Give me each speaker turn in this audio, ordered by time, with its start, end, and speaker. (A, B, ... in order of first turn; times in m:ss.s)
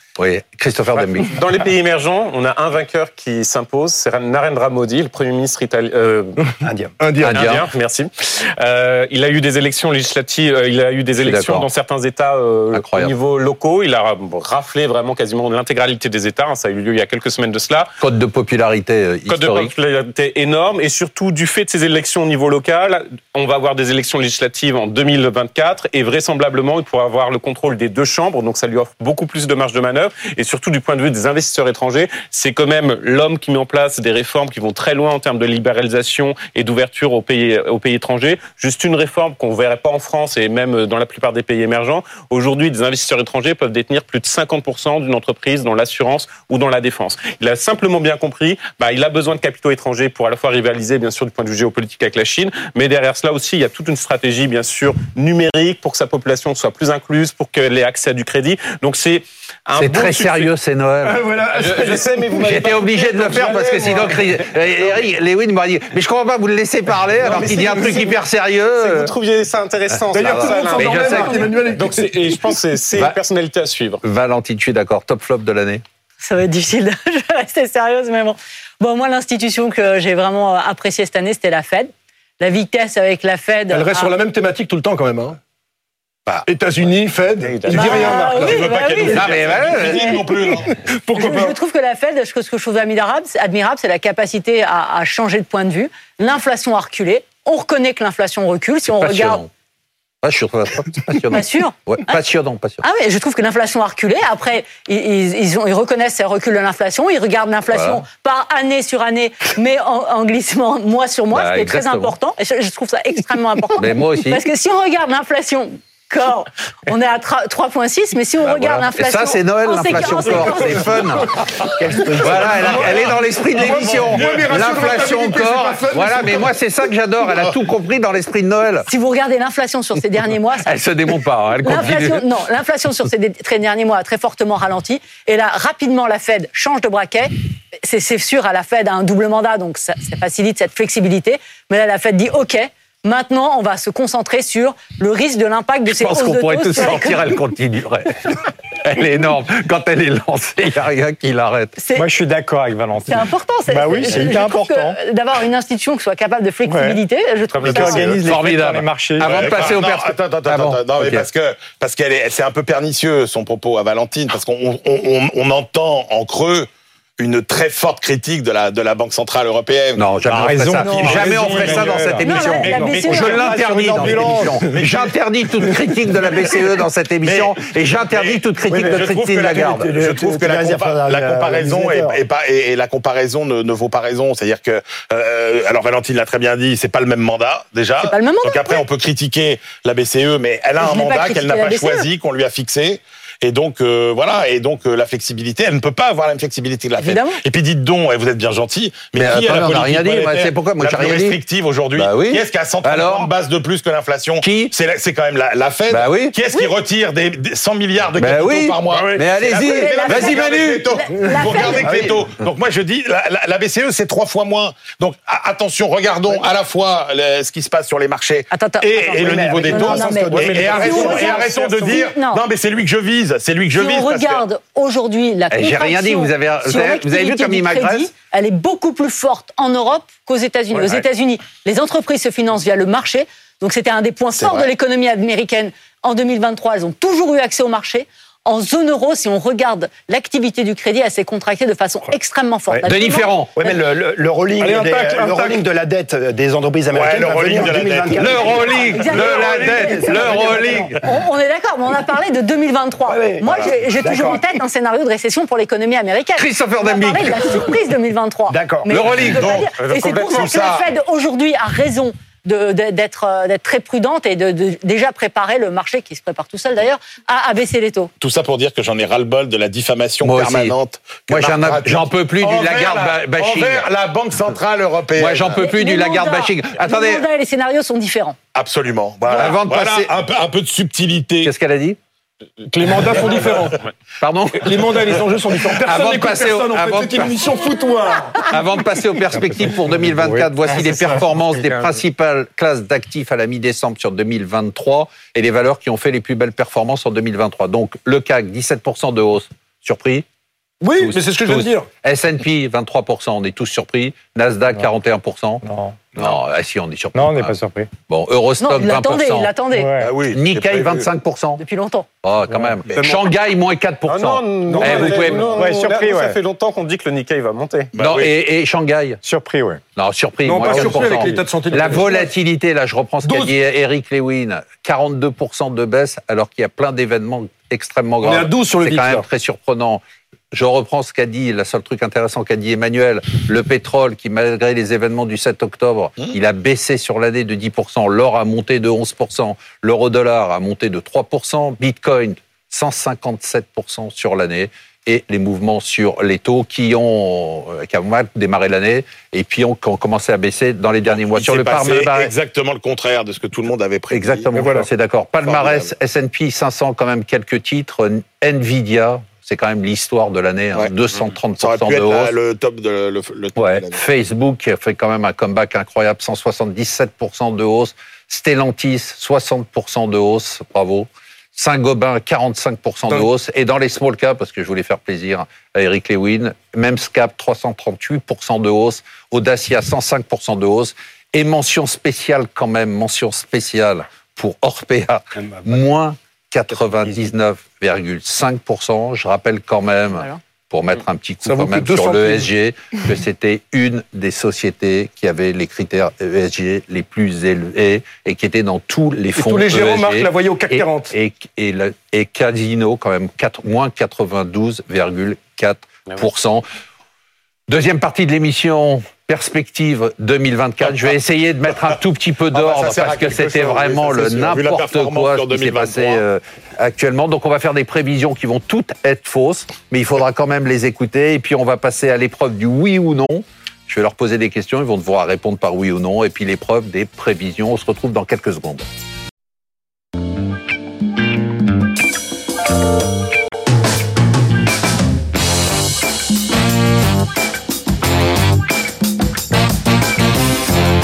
0:00.2-0:01.4 A
0:01.2-0:06.4 B
0:06.6-0:06.9 C
0:07.0-0:07.5 D
0:07.2-0:07.7 A
0:07.3-0:17.9 B
0:11.2-0:11.7 A
0:12.7-0:13.1 A
0:18.0-0:19.7 A
0:19.3-1:00.5 B
0:59.8-1:01.2 A
1:01.0-1:02.4 D
1:01.5-1:04.2 B
1:02.4-1:09.1 A
1:07.2-1:08.1 B
1:07.4-1:08.0 D
1:08.8-1:14.0 B
1:09.9-1:11.5 A
1:10.1-1:12.3 D
1:14.0-1:15.8 A
1:16.2-1:24.1 E
1:23.7-1:25.4 D
1:26.4-1:28.6 D
1:27.4-1:28.0 B
1:27.7-1:30.2 E
1:27.7-1:30.7 F
1:29.1-1:30.1 A
1:30.8-1:31.5 D
1:31.1-1:39.4 E
1:39.0-1:39.5 A
1:40.2-1:42.8 A
1:41.3-1:42.2 E
1:42.8-2:01.1 E
1:47.7-1:48.0 A
1:51.3-1:52.1 A
1:53.8-1:54.4 A
1:58.4-2:08.9 A
2:01.9-2:04.8 F
2:02.5-2:03.0 D
2:03.5-2:06.5 D
2:08.9-2:10.7 E
2:10.6-2:12.2 A
2:11.6-2:27.3 E
2:25.8-2:31.7 A
2:31.8-2:32.1 E
2:31.9-2:35.0 G
2:33.1-2:38.2 E
2:36.6-2:37.0 G
2:37.6-2:39.6 G
2:38.2-2:41.2 A
2:39.2-2:52.2 F
2:50.0-2:59.9 A
2:50.3-2:54.7 G
2:52.2-2:53.5 E
2:54.0-2:55.1 F
2:57.2-3:44.4 F
2:58.7-2:59.1 C
2:59.6-3:02.2 C
3:08.0-3:08.8 E
3:10.8-3:12.1 E
3:17.0-3:17.4 E
3:19.1-3:21.4 A
3:21.9-3:23.3 A
3:24.4-3:24.7 A
3:25.9-3:26.3 A
3:28.2-3:30.9 A
3:29.5-3:32.1 E
3:38.5-3:42.4 E
3:39.2-3:41.4 C
3:40.4-3:41.0 B
3:43.7-4:03.4 E
3:45.5-3:48.1 A
3:54.4-3:54.7 F
4:02.8-4:03.6 A
4:03.5-4:10.9 C
4:04.6-4:05.6 D
4:06.9-4:08.9 F
4:08.2-4:11.0 A
4:08.4-4:28.1 E
4:13.1-4:14.4 C
4:16.4-4:17.7 A
4:18.5-4:19.1 C
4:18.9-4:19.6 A
4:19.2-4:20.9 F
4:19.8-4:20.5 B
4:28.2-4:35.6 F
4:30.2-4:30.7 A
4:31.3-4:33.9 A
4:35.2-4:37.2 A
4:35.6-4:38.4 E
4:38.5-4:41.5 F
4:39.3-4:40.1 A
4:41.4-4:42.0 A
4:42.6-4:43.8 D
4:44.2-4:47.4 A
4:44.6-4:48.5 D
4:48.4-5:00.2 A
4:49.3-4:50.5 G
5:00.8-5:01.9 D
5:01.0-5:05.6 A
5:05.6-5:06.1 G
5:06.2-5:09.5 A
5:07.1-5:07.9 G
5:08.6-5:09.9 E
5:09.7-5:10.1 G
5:10.0-5:11.1 F
5:10.3-5:11.6 A
5:11.6-5:12.1 E
5:12.2-5:15.5 A
5:12.5-5:12.8 G
5:12.9-5:13.2 B
5:14.0-5:17.9 B
5:14.7-5:15.6 D
5:15.5-5:16.4 G
5:17.9-5:18.3 F
5:18.0-5:19.2 A
5:19.2-5:19.8 G
5:20.0-5:52.3 A
5:20.4-5:22.3 D
5:23.2-5:23.5 D
5:28.2-5:29.2 D
5:51.0-5:54.8 F
5:54.1-6:02.3 A
5:55.4-5:55.9 F
6:01.6-6:04.0 F
6:03.6-6:46.6 A
6:31.4-6:32.5 D
6:39.3-6:41.1 D
6:47.7-7:08.9 A
6:52.5-6:56.2 F